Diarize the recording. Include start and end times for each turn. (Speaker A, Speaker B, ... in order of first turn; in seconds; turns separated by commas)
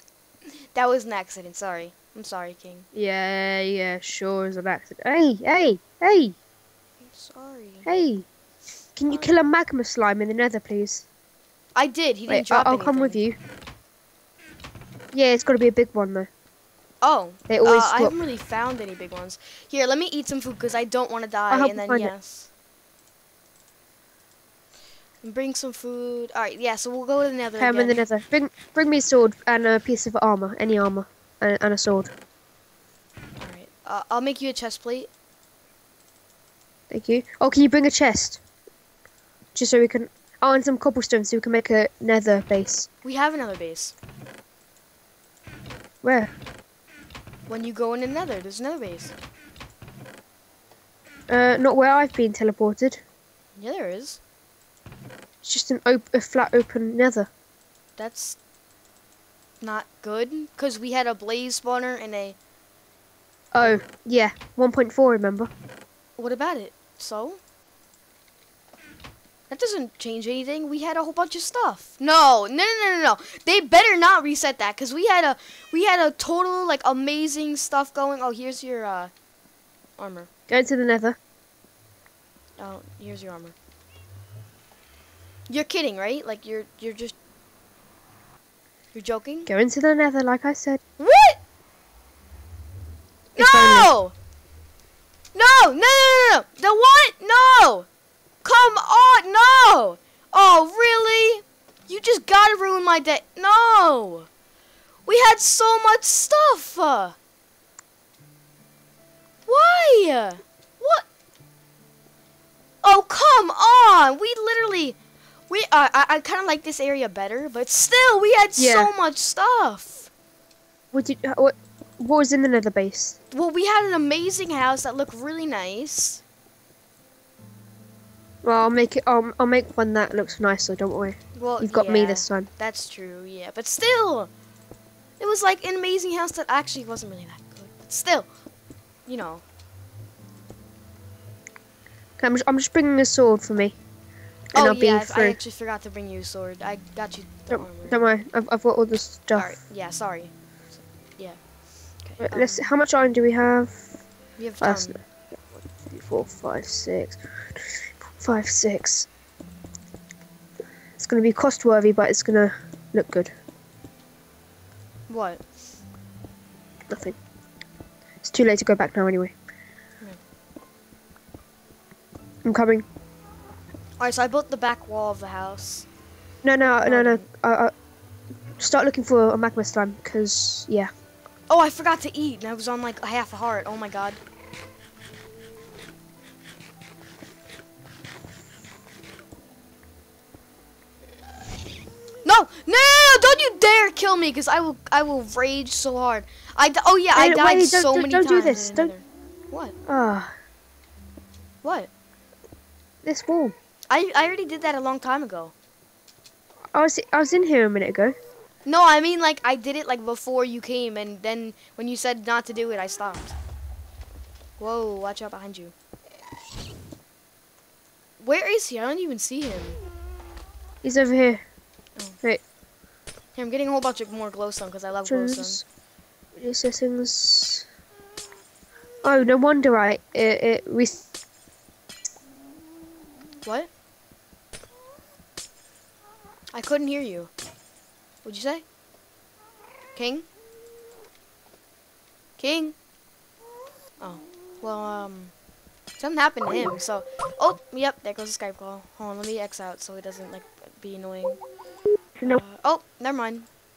Speaker A: 0.7-2.9, Speaker B: 2.9-6.3, Speaker A: 7.0-7.9, Speaker B: 7.8-8.2, Speaker B: 8.9-11.0, Speaker A: 11.8-13.2, Speaker B: 12.3-13.4, Speaker B: 15.1-16.3, Speaker A: 17.0-22.5, Speaker B: 17.5-18.1, Speaker B: 21.5-22.1, Speaker A: 25.2-28.0, Speaker B: 27.6-32.1, Speaker A: 33.4-35.1, Speaker B: 36.9-38.4, Speaker B: 39.5-42.9, Speaker A: 43.0-43.9, Speaker B: 46.0-46.3, Speaker A: 47.5-49.1, Speaker B: 51.3-53.0, Speaker A: 53.6-54.2, Speaker B: 55.4-57.3, Speaker A: 58.0-58.4, Speaker A: 59.6-62.4, Speaker B: 63.5-65.5, Speaker A: 66.2-67.4, Speaker A: 69.5-79.1, Speaker A: 80.0-80.3, Speaker B: 80.5-81.2, Speaker A: 82.6-83.5, Speaker A: 85.5-87.1, Speaker A: 88.9-89.5, Speaker B: 89.5-90.8, Speaker A: 91.0-91.4, Speaker A: 93.3-94.1, Speaker B: 93.4-93.9, Speaker A: 95.3-97.9, Speaker A: 98.4-104.3, Speaker A: 105.0-107.2, Speaker A: 109.5-111.0, Speaker A: 112.8-115.0, Speaker A: 115.5-120.1, Speaker B: 118.6-118.9, Speaker B: 120.9-123.2, Speaker A: 123.3-126.2, Speaker B: 128.4-132.5, Speaker A: 131.4-134.3, Speaker A: 135.2-138.3, Speaker A: 139.1-139.4, Speaker B: 142.2-143.8, Speaker B: 144.5-145.4, Speaker A: 144.5-148.0, Speaker B: 147.5-149.6, Speaker A: 149.3-151.4, Speaker A: 152.0-152.7, Speaker B: 152.2-153.8, Speaker A: 154.4-155.0, Speaker B: 154.6-155.0, Speaker B: 155.6-157.2, Speaker B: 158.2-159.1, Speaker B: 161.0-163.3, Speaker A: 165.1-165.4, Speaker B: 166.9-167.2, Speaker B: 168.2-169.3, Speaker B: 172.4-172.8, Speaker A: 174.0-175.9, Speaker B: 176.4-177.7, Speaker A: 176.8-177.2, Speaker B: 178.6-180.9, Speaker A: 181.5-184.2, Speaker A: 192.2-199.7, Speaker B: 197.1-198.9, Speaker B: 199.9-200.3, Speaker A: 201.6-201.9, Speaker B: 203.0-203.5, Speaker A: 203.9-205.5, Speaker B: 206.7-208.2, Speaker A: 208.7-213.3, Speaker A: 214.6-215.7, Speaker A: 218.2-219.8, Speaker B: 220.8-221.4, Speaker A: 223.3-225.6, Speaker B: 225.1-225.6, Speaker B: 226.3-227.7, Speaker B: 229.0-231.0, Speaker A: 233.4-233.7, Speaker A: 236.5-237.3, Speaker A: 238.2-238.6, Speaker A: 239.9-240.3, Speaker A: 242.4-242.7, Speaker A: 244.0-245.3, Speaker A: 246.0-251.4, Speaker A: 252.2-253.5